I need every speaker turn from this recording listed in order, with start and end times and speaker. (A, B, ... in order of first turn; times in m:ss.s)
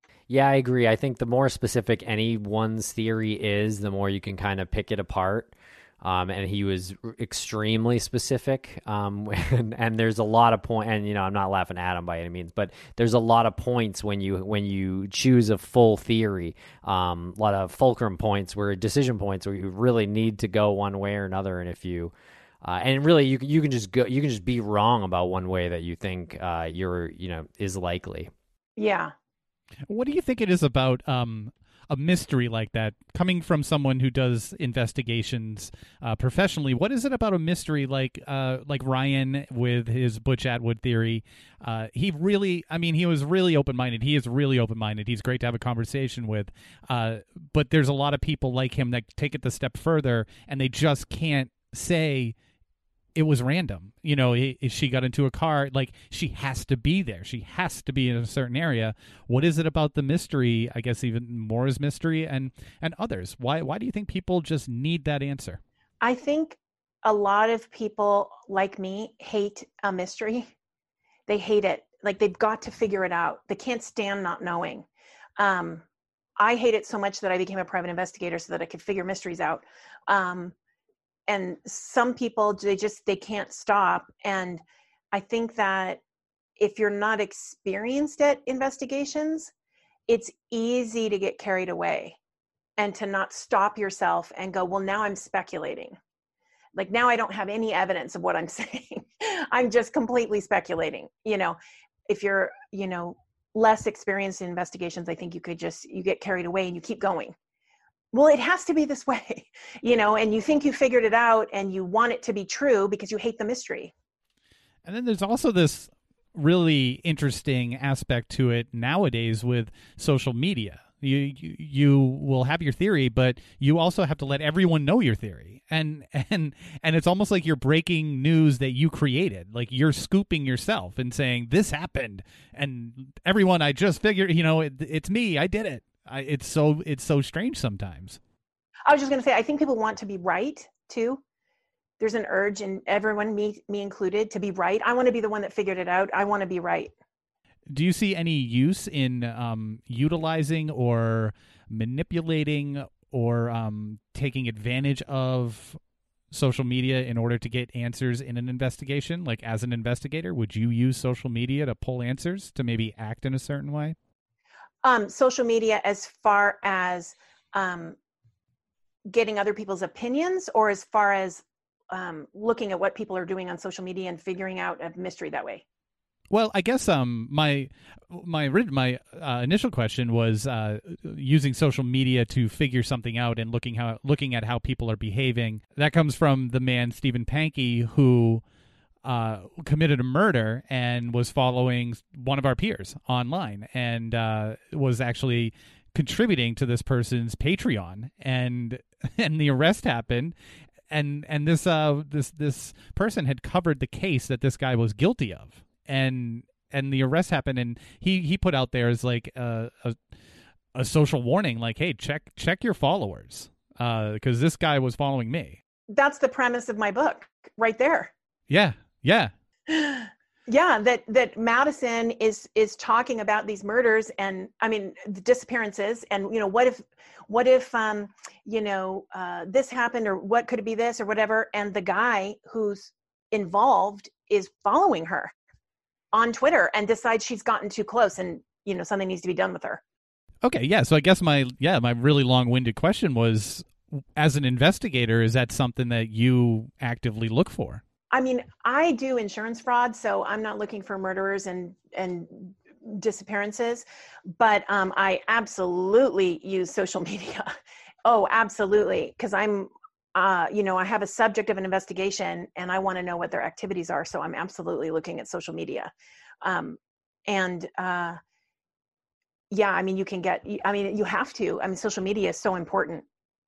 0:00.3-0:28.3 A
0:28.8-0:29.1 B
0:29.9-0:52.3 C
0:53.2-1:05.6 C
1:06.0-1:10.5 B
1:11.3-1:14.8 B
1:15.4-1:15.8 B
1:16.4-1:20.5 B
1:21.3-1:26.0 B
1:26.6-1:29.5 B
1:30.1-1:32.2 B
1:32.8-1:36.0 B
1:36.8-1:41.6 B
1:42.1-1:47.3 B
1:48.1-1:53.9 B
1:54.8-2:18.2 C
2:18.9-2:21.2 B
2:22.0-2:26.9 B
2:27.7-2:35.8 C
2:36.3-2:44.0 C
2:44.8-2:48.0 B
2:49.1-2:55.6 B
2:56.3-3:08.4 C
3:09.0-3:20.3 C
3:20.9-3:30.0 C
3:30.8-3:35.6 C
3:35.9-3:38.1 B
3:38.5-3:39.3 C
3:39.7-3:55.3 B
3:56.1-3:59.8 B
4:00.4-4:07.8 C
4:08.1-4:13.8 B
4:14.4-4:17.5 B
4:18.0-4:25.9 B
4:26.4-4:28.2 B
4:29.5-4:33.0 B